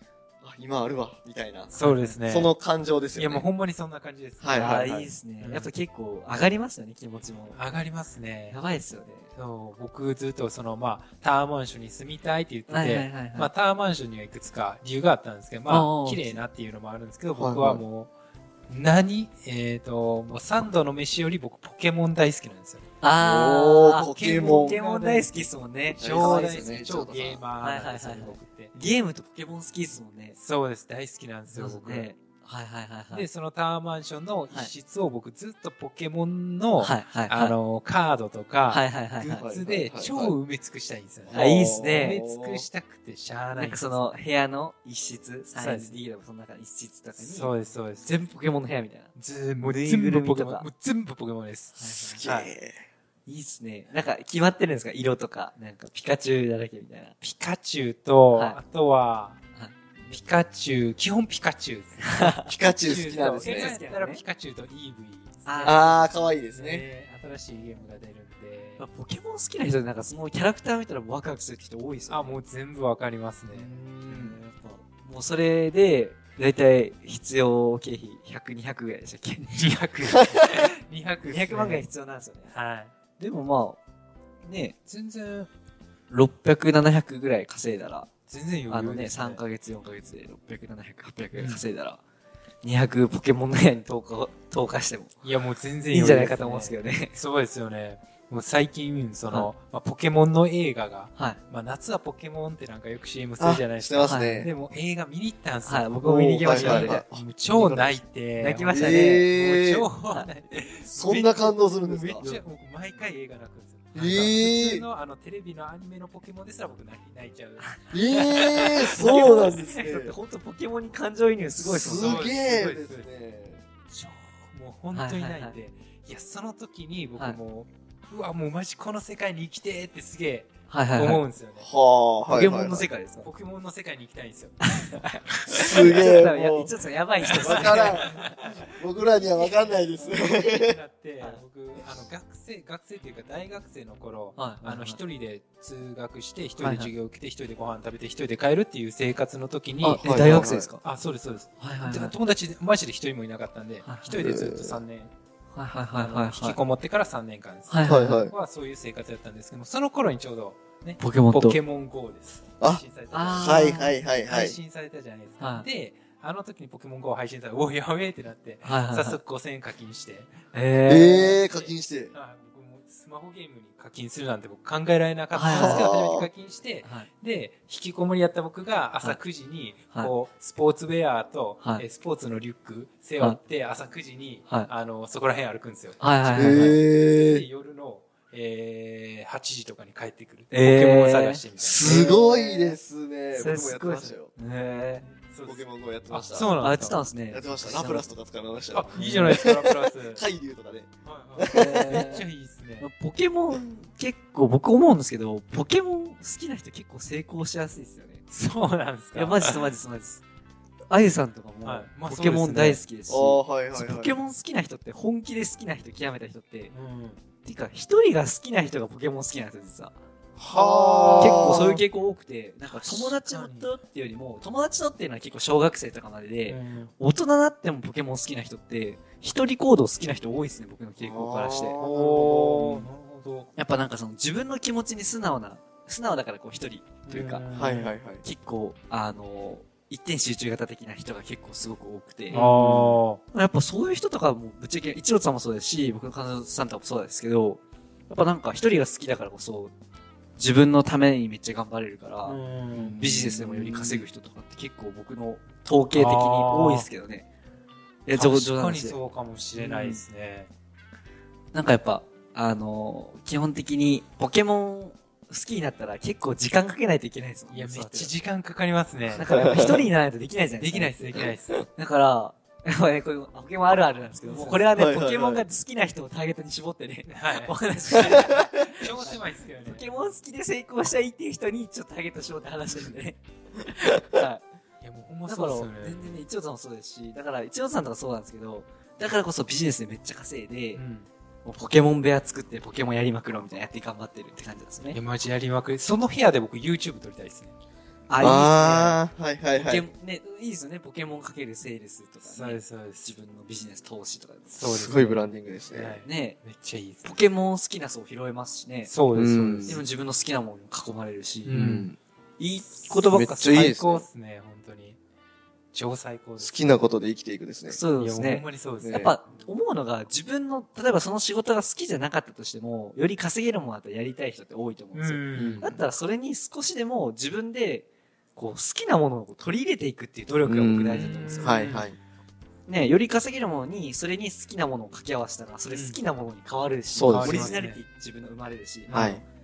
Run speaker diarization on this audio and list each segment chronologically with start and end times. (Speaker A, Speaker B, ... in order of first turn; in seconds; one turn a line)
Speaker A: 0.4-1.7
Speaker B: 1.7-2.2
Speaker C: 1.8-2.5
Speaker A: 2.2-3.5
Speaker C: 3.1-5.7
Speaker A: 4.4-5.1
Speaker B: 4.5-7.6
Speaker C: 7.5-8.6
Speaker B: 8.5-9.3
Speaker C: 9.3-18.1
Speaker B: 12.7-13.5
Speaker B: 15.7-16.4
Speaker A: 17.3-17.8
Speaker C: 18.7-22.9
Speaker B: 23.0-30.4
Speaker A: 23.2-24.8
Speaker C: 24.0-28.7
Speaker A: 26.0-27.4
Speaker C: 30.4-32.1
Speaker B: 31.5-33.3
Speaker C: 33.1-44.0
Speaker B: 36.8-37.5
Speaker B: 38.7-39.4
Speaker A: 39.4-40.4
Speaker A: 41.3-42.6
Speaker B: 41.3-42.2
Speaker B: 43.5-47.5
Speaker C: 45.6-45.9
Speaker C: 47.2-48.1
Speaker B: 48.0-50.7
Speaker C: 49.1-52.5
Speaker B: 51.8-52.2
Speaker A: 52.1-52.8
Speaker B: 53.2-57.1
Speaker C: 57.2-59.4
Speaker B: 58.3-58.6
Speaker B: 59.5-60.2
Speaker C: 60.1-68.8
Speaker B: 62.2-62.5
Speaker A: 62.5-63.8
Speaker B: 63.3-64.2
Speaker B: 65.5-66.1
Speaker A: 65.6-66.8
Speaker B: 68.8-72.4
Speaker C: 72.1-74.4
Speaker B: 73.5-79.7
Speaker C: 79.5-81.9
Speaker B: 81.2-82.5
Speaker C: 82.5-82.9
Speaker B: 83.2-83.8
Speaker B: 84.4-84.8
Speaker C: 84.9-85.5
Speaker B: 86.1-88.1
Speaker C: 88.3-89.4
Speaker B: 88.7-92.0
Speaker C: 91.3-91.6
Speaker B: 92.6-95.1
Speaker C: 95.2-119.3
Speaker B: 95.9-97.1
Speaker A: 103.4-104.5
Speaker B: 104.0-104.4
Speaker B: 105.6-109.3
Speaker A: 106.0-107.2
Speaker A: 108.7-109.9
Speaker A: 110.9-112.3
Speaker A: 113.9-114.8
Speaker A: 117.9-120.1
Speaker B: 119.0-122.3
Speaker A: 121.6-123.6
Speaker C: 121.8-123.1
Speaker C: 123.9-131.7
Speaker B: 124.9-125.6
Speaker B: 130.7-131.2
Speaker A: 131.6-132.9
Speaker B: 132.3-133.3
Speaker C: 133.2-134.9
Speaker B: 134.7-138.1
Speaker A: 135.5-136.7
Speaker C: 137.3-155.1
Speaker A: 137.3-140.8
Speaker B: 144.4-145.0
Speaker B: 146.6-146.9
Speaker B: 149.8-150.8
Speaker A: 150.0-150.7
Speaker B: 151.6-152.1
Speaker B: 153.8-154.2
Speaker A: 154.2-154.8
Speaker B: 155.5-156.6
Speaker C: 155.9-170.3
Speaker B: 157.7-158.2
Speaker A: 157.9-158.3
Speaker B: 161.0-161.6
Speaker B: 163.1-163.9
Speaker A: 163.3-164.6
Speaker B: 165.4-165.7
Speaker B: 168.6-169.2
Speaker B: 170.5-171.4
Speaker A: 170.9-172.1
Speaker C: 171.4-192.1
Speaker B: 175.3-175.9
Speaker A: 175.4-176.3
Speaker B: 176.8-177.1
Speaker B: 186.0-186.8
Speaker A: 186.3-187.4
Speaker B: 190.5-192.8
Speaker A: 191.6-194.3
Speaker B: 193.3-195.0
Speaker C: 195.0-197.0
Speaker A: 195.4-196.6
Speaker B: 196.6-198.1
Speaker A: 197.3-202.1
Speaker C: 198.7-200.2
Speaker B: 198.9-199.4
Speaker C: 201.1-202.9
Speaker B: 201.4-202.2
Speaker B: 202.8-208.2
Speaker C: 208.3-209.6
Speaker B: 209.1-210.2
Speaker B: 210.9-216.7
Speaker C: 211.6-212.8
Speaker A: 213.1-214.2
Speaker C: 216.7-217.2
Speaker B: 217.4-219.9
Speaker A: 220.4-221.8
Speaker C: 220.5-221.7
Speaker B: 221.2-231.8
Speaker C: 222.7-223.7
Speaker C: 226.5-226.9
Speaker A: 231.0-232.8
Speaker C: 231.8-233.5
Speaker B: 233.6-237.4
Speaker C: 237.1-237.9
Speaker A: 237.5-238.2
Speaker B: 238.2-242.4
Speaker C: 242.3-243.2
Speaker A: 242.3-243.0
Speaker B: 243.3-249.7
Speaker B: 250.4-252.4
Speaker C: 252.2-253.0
Speaker A: 252.7-254.0
Speaker B: 252.9-257.3
Speaker C: 255.9-256.9
Speaker B: 258.1-259.0
Speaker C: 258.1-260.5
Speaker B: 259.6-260.0
Speaker B: 261.5-268.1
Speaker C: 267.5-269.6
Speaker B: 269.1-284.4
Speaker A: 269.3-269.8
Speaker C: 270.6-271.6
Speaker C: 274.2-274.7
Speaker A: 274.7-275.4
Speaker C: 277.1-279.9
Speaker A: 278.0-278.4
Speaker C: 284.8-286.2
Speaker B: 285.2-290.8
Speaker C: 290.8-291.1
Speaker B: 291.4-295.0
Speaker C: 294.9-297.5
Speaker B: 298.1-299.0
Speaker A: 298.2-299.9
Speaker C: 298.3-298.9
Speaker B: 299.5-304.6
Speaker C: 302.2-303.1
Speaker C: 304.5-307.2
Speaker A: 304.6-306.0
Speaker B: 306.0-306.4
Speaker B: 307.0-308.9
Speaker C: 308.9-309.9
Speaker A: 309.1-309.8
Speaker B: 309.6-311.6
Speaker C: 311.5-311.9
Speaker A: 311.5-312.0
Speaker B: 312.4-313.7
Speaker C: 312.8-315.0
Speaker A: 313.0-314.0
Speaker C: 315.7-316.9
Speaker A: 316.4-317.8
Speaker B: 317.7-331.6
Speaker C: 318.0-319.0
Speaker A: 318.8-319.1
Speaker C: 324.9-325.7
Speaker A: 325.4-325.8
Speaker A: 330.5-332.0
Speaker C: 330.9-331.9
Speaker B: 332.7-339.1
Speaker C: 335.7-336.0
Speaker A: 336.9-337.6
Speaker C: 337.1-337.8
Speaker C: 338.9-339.2
Speaker A: 338.9-339.2